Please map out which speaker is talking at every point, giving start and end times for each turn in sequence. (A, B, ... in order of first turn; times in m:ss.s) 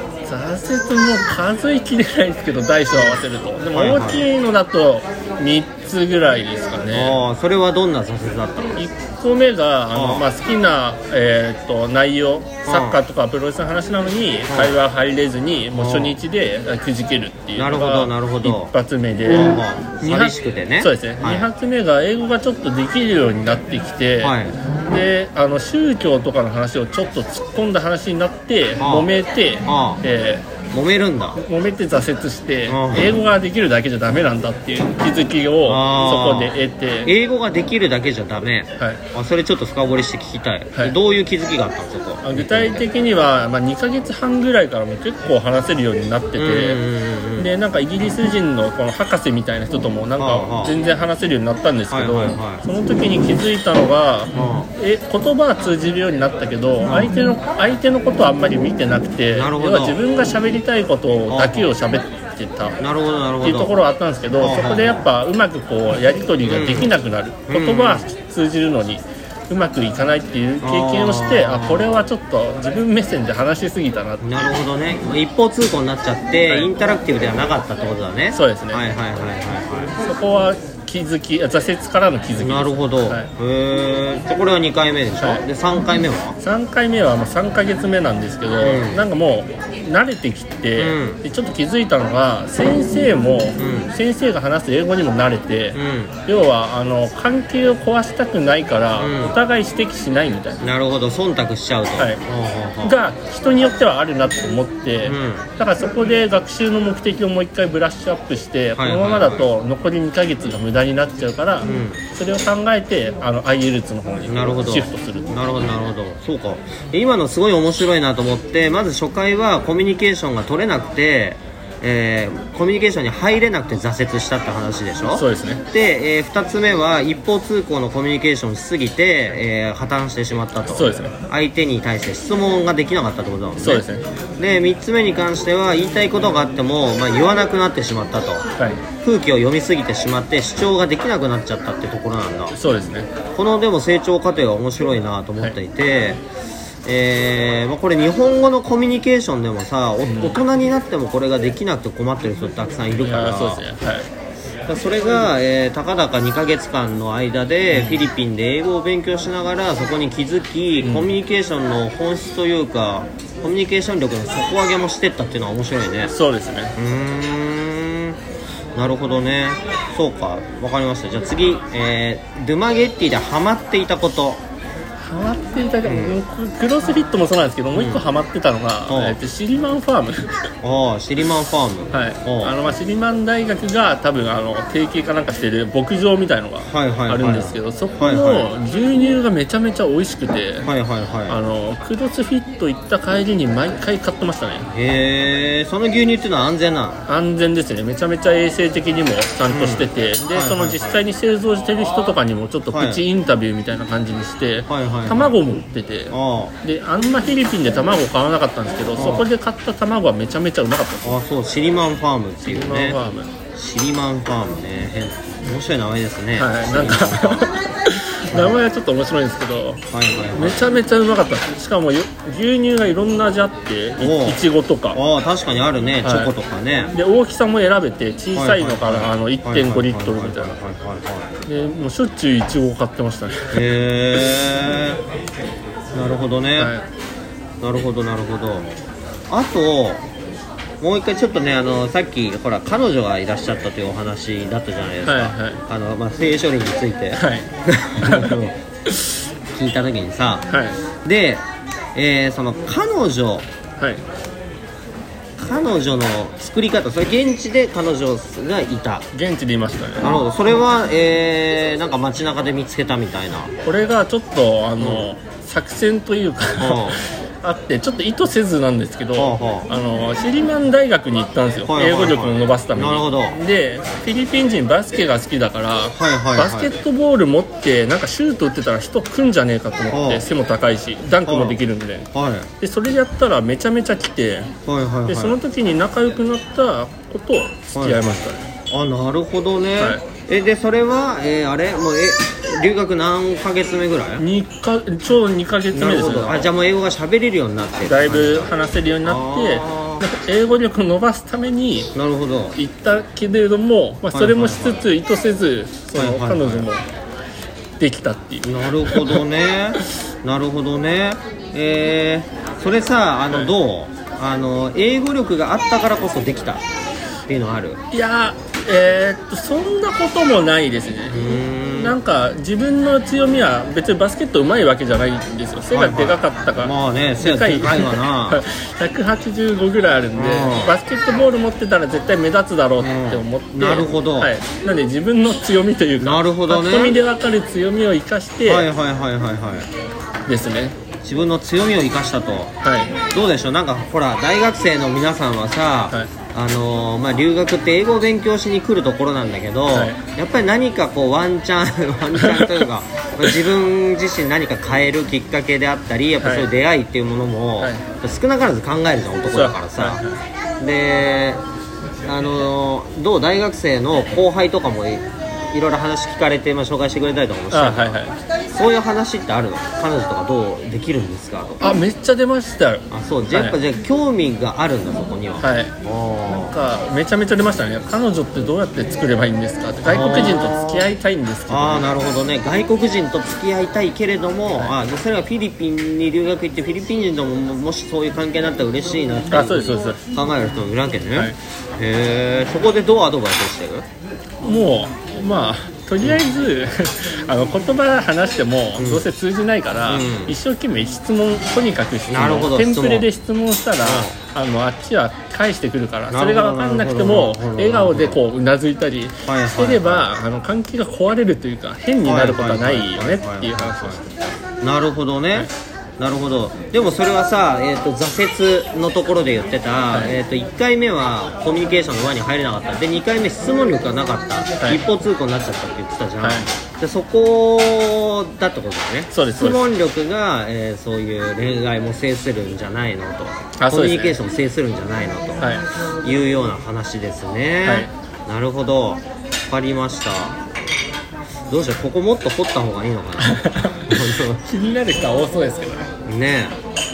0:00.2-0:07.2 A
0:03.7-0:04.2 B
0:06.9-0:08.9 B
0:08.8-0:30.4 A
0:09.9-0:10.3 B
0:12.7-0:13.0 B
0:14.5-0:14.7 B
0:15.7-0:16.2 B
0:17.6-0:18.7 B
0:19.2-0:21.5 B
0:24.2-0:24.5 B
0:28.8-0:29.1 B
0:29.6-0:30.0 B
0:30.7-0:31.4 B
0:31.4-0:37.1 A
0:32.7-0:33.2 B
0:35.6-0:42.8 B
0:42.2-0:46.8 A
0:46.4-0:47.5 B
0:47.4-1:02.8 A
0:50.2-0:50.8 B
0:51.9-0:52.6 B
0:54.3-0:54.7 B
0:56.8-0:57.1 B
0:59.3-1:00.0 B
1:01.3-1:01.7 B
1:02.8-1:03.8 B
1:03.4-1:14.5 A
1:04.4-1:05.0 B
1:06.4-1:06.9 B
1:07.5-1:08.0 B
1:10.6-1:12.1 B
1:14.2-1:19.9 B
1:16.4-1:16.7 A
1:18.3-1:18.8 A
1:20.0-1:23.3 A
1:22.4-1:26.4 B
1:26.4-1:40.6 A
1:28.6-1:29.0 B
1:30.8-1:31.2 B
1:33.6-1:33.9 B
1:35.7-1:36.1 B
1:39.0-1:39.4 B
1:40.6-1:43.0 B
1:42.8-1:55.3 A
1:45.0-1:45.5 B
1:48.8-1:49.3 B
1:51.6-1:52.0 B
1:54.3-2:13.8 B
2:05.1-2:05.6 A
2:10.7-2:11.1 A
2:13.6-2:14.0 A
2:14.4-2:18.4 B
2:19.0-2:22.6 B
2:22.5-2:23.1 A
2:23.3-2:26.2 B
2:26.8-2:33.6 B
2:30.0-2:30.4 A
2:33.0-2:34.1 A
2:34.7-2:46.1 B
2:37.7-2:38.0 A
2:40.8-2:41.1 A
2:46.1-2:46.7 A
2:46.8-2:48.2 B
2:48.7-2:54.4 B
2:55.0-3:00.5 A
2:55.8-2:56.2 B
2:57.7-2:58.0 B
2:58.9-2:59.2 B
3:00.6-3:02.6 B
3:01.9-3:10.7 A
3:06.6-3:08.5 B
3:10.6-3:11.4 B
3:11.3-3:14.7 A
3:14.7-3:17.0 B
3:17.1-3:31.1 A
3:19.5-3:21.0 B
3:22.7-3:23.0 B
3:24.7-3:25.3 B
3:26.1-3:26.5 B
3:29.0-3:29.2 B
3:31.0-3:33.0 B
3:32.4-3:33.3 A
3:33.5-3:37.5 B
3:36.4-3:39.8 A
3:39.9-3:40.7 B
3:40.3-3:45.0 A
3:44.0-3:44.4 B
3:44.9-3:46.9 B
3:46.0-3:46.3 A
3:46.9-3:50.6 A
3:48.3-3:51.3 B
3:51.4-3:53.6 A
3:53.5-3:55.0 B
3:55.9-3:56.7 B
3:56.6-3:56.9 A
3:57.6-3:58.7 B
3:59.3-4:00.0 B
4:00.8-4:08.6 B
4:05.0-4:05.6 A
4:07.2-4:08.4 A
4:09.5-4:10.5 B
4:10.5-4:10.8 A
4:11.0-4:13.5 B
4:15.4-4:19.1 B
4:19.1-4:20.2 A
4:20.0-4:23.5 B
4:23.6-4:42.1 A
4:24.8-4:25.1 B
4:26.6-4:27.0 B
4:29.2-4:29.7 B
4:31.6-4:33.4 B
4:35.9-4:36.7 B
4:39.9-4:40.2 B
4:41.2-4:41.6 B
4:42.1-4:42.5 B
4:42.6-4:44.5 A
4:44.6-4:45.4 B
4:45.1-4:48.5 A
4:47.7-4:54.2 B
4:54.2-4:56.5 A
4:55.7-4:58.5 B
4:57.8-5:01.9 A
4:59.0-5:00.0 B
5:01.9-5:02.6 B
5:02.6-5:06.9 A
5:04.1-5:04.8 B
5:05.9-5:06.7 B
5:07.8-5:09.2 A
5:08.4-5:16.6 B
5:17.3-5:17.8 B
5:17.9-5:38.7 A
5:21.1-5:22.0 B
5:25.7-5:28.4 B
5:30.1-5:30.7 B
5:32.8-5:34.3 B
5:36.0-5:37.0 B
5:38.4-5:39.7 B
5:40.3-5:40.7 A
5:41.0-5:42.5 B
5:42.6-5:42.9 A
5:43.1-6:00.0 B
5:49.7-5:50.0 A
5:52.2-5:52.6 A
5:56.2-5:56.5 A
5:57.6-5:57.8 A
5:59.3-6:00.1 A
6:00.6-6:01.4 B
6:02.0-6:08.0 B
6:07.5-6:08.2 A
6:08.5-6:11.7 B
6:11.6-6:13.6 A
6:12.9-6:16.5 B
6:15.4-6:15.7 A
6:16.3-6:21.9 A
6:19.8-6:20.9 B
6:21.5-6:33.8 B
6:29.3-6:30.0 A
6:34.4-6:54.3 A
6:38.8-6:39.0 B
6:39.9-6:40.3 B
6:42.1-6:43.1 B
6:43.8-6:44.2 B
6:46.1-6:48.2 B
6:49.2-6:50.1 B
6:52.0-6:54.0 B
6:54.6-7:15.5 B
7:06.2-7:06.5 A
7:09.1-7:09.7 A
7:13.6-7:14.2 A
7:15.4-7:15.6 A
7:16.0-7:20.4 B
7:17.6-7:17.9 A
7:21.5-7:24.4 B
7:23.2-7:25.9 A
7:26.0-7:26.6 B